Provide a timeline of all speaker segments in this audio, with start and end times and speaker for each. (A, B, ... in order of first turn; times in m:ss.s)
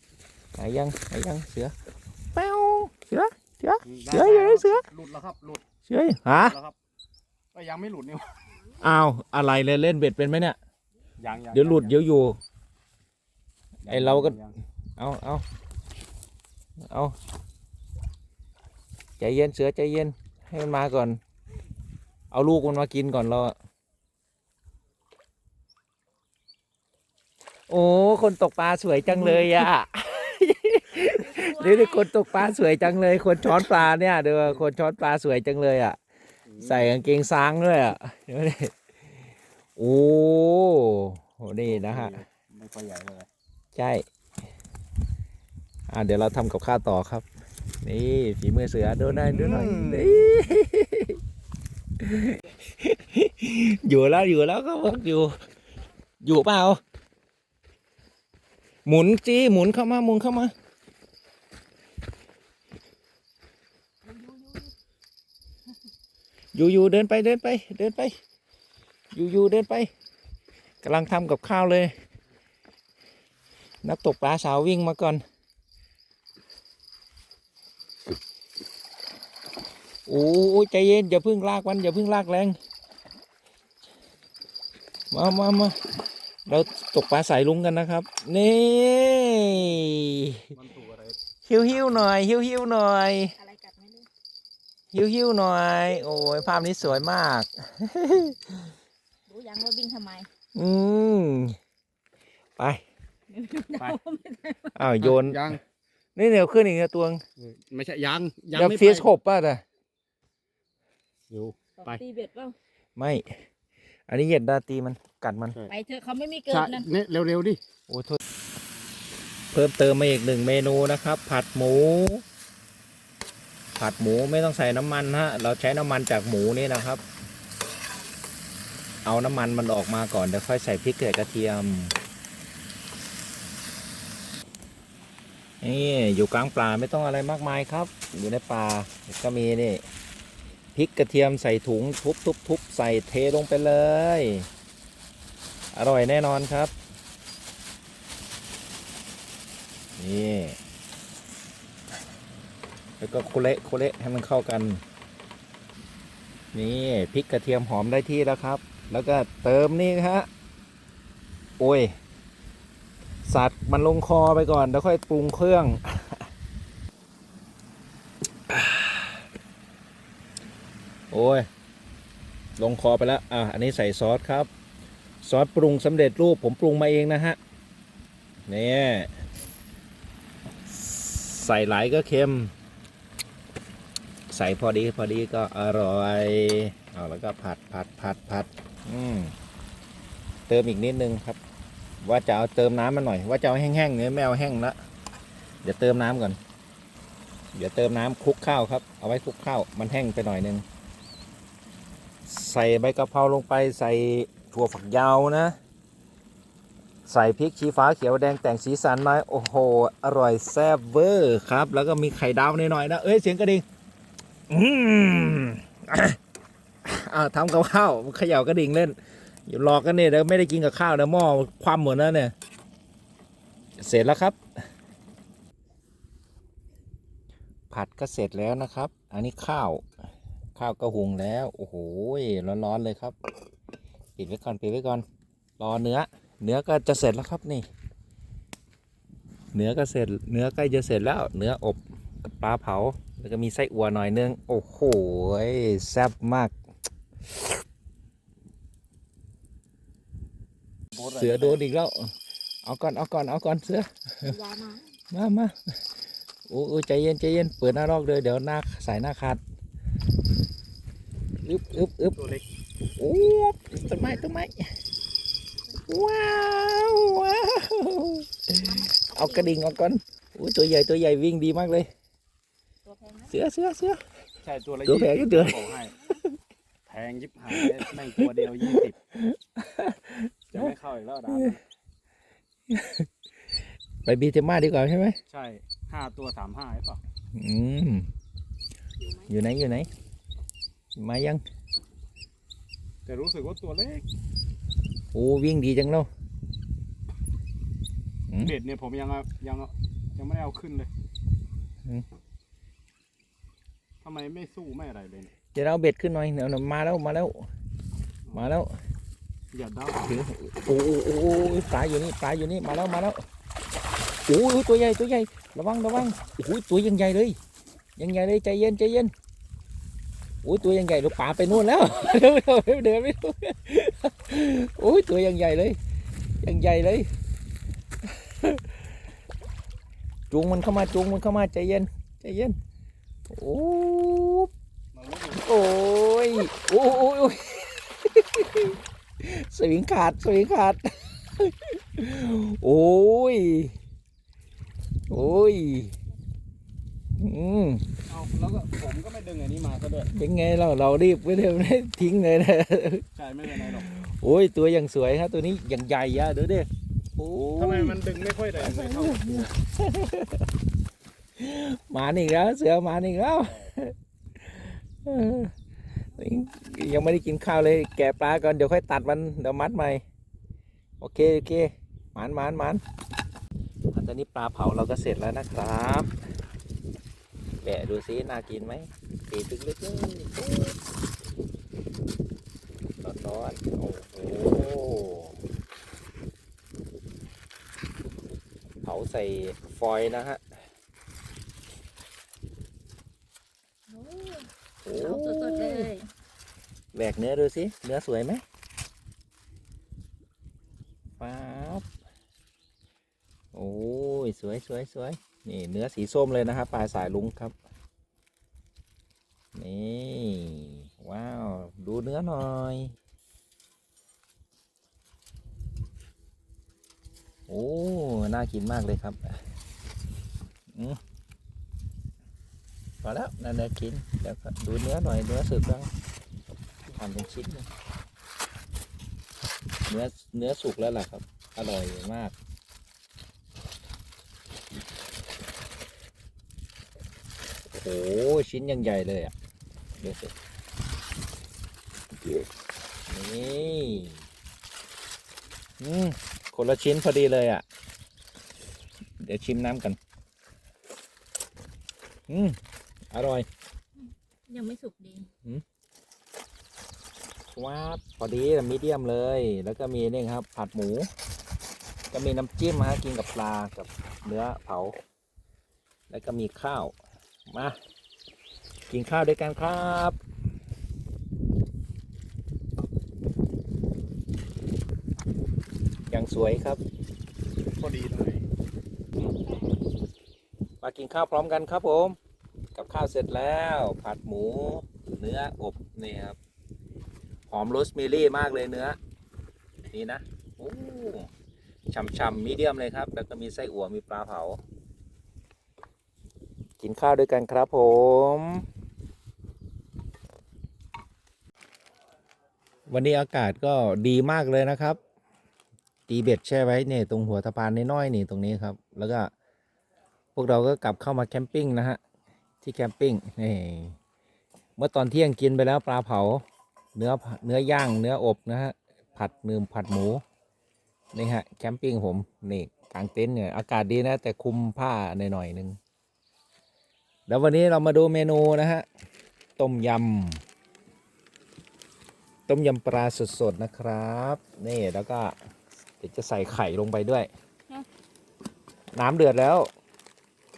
0:00.6-0:01.7 A
0:02.3-0:04.8 A
0:03.8-0:05.6 B
0:05.8-0:06.6 A
0:06.3-0:06.8 B
0:07.5-0:08.5 B
0:08.8-0:10.6 A
0:11.2-0:12.0 B
0:11.5-0:12.4 A
0:13.8-0:14.6 B
0:13.9-0:14.4 A
0:15.0-0:15.4 A
0:16.9-0:17.1 A
0:19.2-0:21.2 A
0:22.3-0:23.5 A
0:27.7-0:36.0 A
0:31.2-0:32.1 C
0:36.5-0:36.9 B
0:36.6-0:38.7 A
0:39.8-0:42.2 A
0:41.6-0:43.3 B
0:43.7-0:44.0 A
0:45.9-0:47.2 A
0:47.8-0:51.2 A
0:49.3-0:50.4 B
0:52.0-0:55.4 A
0:56.2-0:56.8 A
0:58.8-1:00.5 A
1:06.5-1:08.2 A
1:09.1-1:09.9 A
1:10.8-1:11.9 A
1:13.8-1:15.2 A
1:20.1-1:22.6 A
1:25.1-1:25.8 A
1:26.5-1:30.5 A
1:30.5-1:31.2 B
1:31.4-1:33.3 A
1:33.4-1:34.1 C
1:34.9-1:38.7 A
1:39.3-1:40.3 C
1:40.5-1:41.6 A
1:42.6-1:42.8 A
1:43.3-1:44.8 C
1:44.7-1:45.6 A
1:45.0-1:45.6 B
1:46.2-1:47.2 A
1:47.4-1:49.1 B
1:48.5-1:49.6 A
1:51.3-1:52.0 B
1:51.8-1:52.6 C
1:53.0-1:53.3 A
1:54.1-1:55.6 A
1:55.7-1:56.9 C
1:56.5-1:57.6 B
1:57.9-1:58.2 A
1:59.5-2:02.2 A
2:03.8-2:07.0 A
2:09.0-2:11.9 A
2:15.6-2:19.8 A
2:20.7-2:24.5 A
2:25.7-2:26.7 A
2:30.0-2:30.6 A
2:33.0-2:34.8 A
2:36.5-2:40.3 A
2:41.6-2:41.9 A
2:43.2-2:46.3 A
2:48.5-2:49.1 A
2:51.1-2:51.5 A
2:52.6-2:54.5 A
2:55.2-2:57.4 A
2:58.5-2:59.1 A
3:00.7-3:02.5 A
3:04.3-3:09.3 A
3:10.5-3:11.4 A
3:12.0-3:14.7 A
3:15.6-3:16.4 A
3:17.5-3:20.6 A
3:22.2-3:25.5 A
3:27.0-3:33.6 A
3:34.5-3:36.2 A
3:36.8-3:42.3 A
3:43.8-3:44.4 A
3:47.7-3:49.8 A
3:50.5-3:53.2 A
3:54.2-3:55.0 A
3:55.6-3:57.6 A
3:59.5-4:06.5 A
4:10.9-4:11.6 B
4:11.2-4:12.1 A
4:12.6-4:14.3 A
4:14.2-4:14.9 C
4:15.1-4:15.5 A
4:16.5-4:19.4 A
4:21.4-4:22.2 A
4:22.2-4:22.4 B
4:23.0-4:24.6 A
4:23.9-4:24.2 C
4:25.9-4:31.9 A
4:28.6-4:29.6 C
4:32.8-4:33.3 C
4:33.3-4:34.0 A
4:34.4-4:35.9 B
4:34.8-4:35.7 A
4:36.9-4:39.0 B
4:37.5-4:40.7 A
4:40.5-4:41.6 B
4:41.3-4:41.6 A
4:42.7-4:43.1 A
4:44.0-4:45.2 A
4:45.3-4:47.0 B
4:47.3-4:48.1 A
4:49.2-4:49.9 A
4:51.0-4:51.4 A
4:53.0-4:54.0 B
4:55.1-4:56.1 A
4:58.4-5:00.9 B
5:04.0-5:05.3 B
5:05.5-5:07.4 A
5:08.3-5:08.7 A
5:09.5-5:10.1 B
5:10.0-5:13.2 A
5:14.3-5:17.4 A
5:18.0-5:19.1 A
5:20.4-5:25.8 A
5:26.4-5:27.1 A
5:28.4-5:28.6 A
5:30.3-5:32.6 A
5:33.3-5:34.5 A
5:34.9-5:35.4 B
5:35.3-5:43.8 A
5:45.1-5:46.0 A
5:47.2-5:47.8 A
5:48.1-5:50.1 B
5:50.1-5:58.0 A
5:53.1-5:53.9 B
5:57.6-5:59.5 B
5:58.6-6:00.4 A
6:01.4-6:04.0 A
6:04.5-6:05.5 A
6:06.1-6:10.0 A
6:11.0-6:12.8 A
6:13.9-6:16.1 A
6:17.6-6:20.8 A
6:23.0-6:25.4 A
6:28.8-6:30.4 A
6:33.9-6:36.1 C
6:34.8-6:35.9 A
6:36.9-6:38.4 A
6:41.2-6:41.8 A
6:43.5-6:47.5 A
6:49.5-6:52.9 A
6:57.5-6:59.4 A
7:00.7-7:01.0 A
7:03.0-7:05.9 A
7:06.9-7:07.7 A
7:09.9-7:12.3 A
7:17.7-7:19.3 A
7:20.0-7:20.3 A
7:23.1-7:24.2 A
7:25.8-7:27.6 A
7:29.2-7:30.0 A
7:32.3-7:32.6 A
7:33.1-7:33.4 A
7:34.0-7:35.3 C
7:37.5-7:41.1 A
7:42.1-7:45.0 A
7:46.1-7:46.9 A
7:47.5-7:47.8 A
7:48.9-7:50.2 A
7:56.1-7:56.8 A
7:57.8-7:58.4 B
8:00.8-8:02.2 A
8:02.7-8:06.4 A
8:07.5-8:09.0 A
8:09.9-8:11.3 A
8:11.9-8:14.6 A
8:16.8-8:18.6 A
8:22.9-8:25.0 A
8:26.1-8:29.3 A
8:30.3-8:32.0 A
8:32.6-8:34.0 A
8:34.8-8:36.4 A
8:36.9-8:40.2 A
8:41.1-8:45.8 A
8:47.3-8:48.8 A
8:49.6-8:50.4 A
8:52.5-8:55.4 A
8:56.0-8:57.3 A
8:58.9-8:59.7 A